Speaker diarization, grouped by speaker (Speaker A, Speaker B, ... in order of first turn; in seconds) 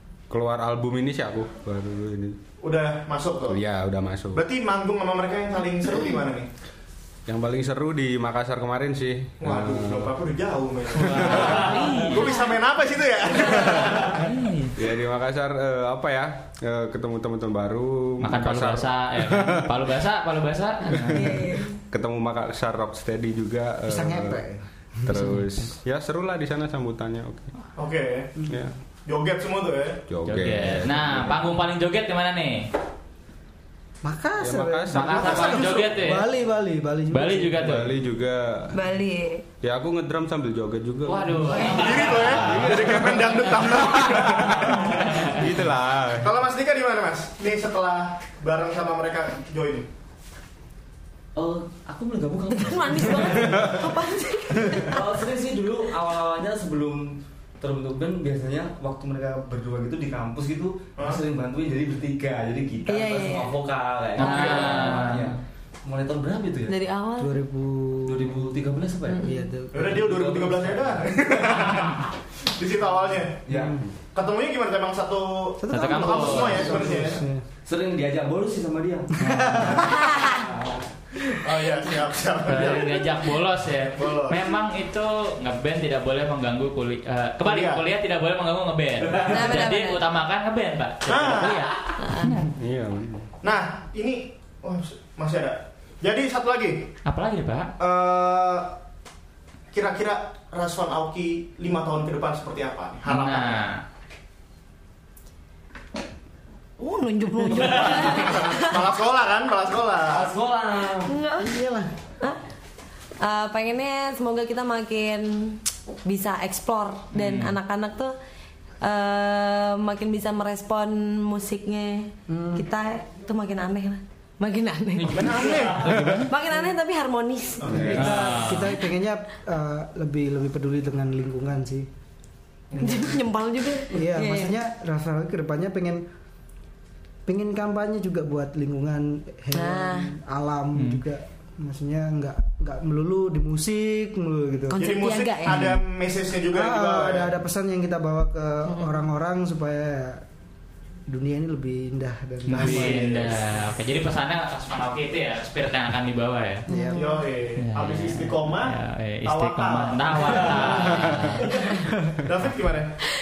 Speaker A: 0.3-2.4, 3.5-4.4, 7.3-10.1, 11.1-11.4, 14.8-19.7, 20.9-24.4, 25.1-27.5, 28.5-28.7, 30.1-31.5, 34.4-35.6, 37.6-38.8, 39.6-46.3, 92.5-93.3, 127.8-128.1
Speaker B: 2.6-3.6, 4.3-6.5, 9.4-14.3, 27.8-28.3, 29.1-30.0, 35.1-36.1, 41.5-45.3, 46.2-49.9, 61.0-61.2, 69.7-73.5, 74.1-77.2, 81.2-83.1, 84.0-84.4, 87.4-87.8, 91.1-91.7, 93.4-96.9, 97.8-98.7, 99.7-103.6, 107.6-110.3, 125.0-126.2, 127.6-128.1, 132.7-133.1, 144.8-147.3, 152.6-153.4, 157.0-163.0
Speaker C: 11.0-12.4, 14.0-14.8, 18.2-21.4, 30.3-32.6, 34.9-36.3, 37.1-37.9, 41.1-45.4, 64.2-65.4, 75.7-76.8, 79.2-79.7, 82.5-92.5, 97.0-97.7, 103.0-103.8, 117.1-117.6, 125.0-126.3, 127.9-128.8, 140.8-141.0, 145.4-145.8, 152.5-156.7, 157.6-161.5
Speaker D: 21.1-21.8, 38.8-39.4, 52.6-55.0, 62.9-63.5, 64.3-65.1, 66.7-67.3, 69.2-69.4, 89.3-90.0, 92.0-92.3, 106.8-108.7, 111.1-111.5, 113.2-115.5, 116.1-118.1, 118.8-125.7, 126.3-127.8, 132.8-134.5, 139.6-140.1, 144.8-145.6, 156.7-157.2
Speaker E: 23.9-25.4, 34.0-37.8, 67.2-68.4, 69.2-70.0, 73.5-73.8, 75.6-77.4, 79.2-79.9, 111.4-111.9, 122.3-122.7, 127.7-131.9, 133.9-136.1, 137.3-144.9, 146.5-150.2, 151.1-153.3, 156.7-157.3
Speaker F: 51.4-54.0, 54.7-66.8, 68.1-69.2, 69.8-71.6, 73.5-73.8, 76.8-77.1, 77.7-80.8, 89.0-89.5, 110.1-111.2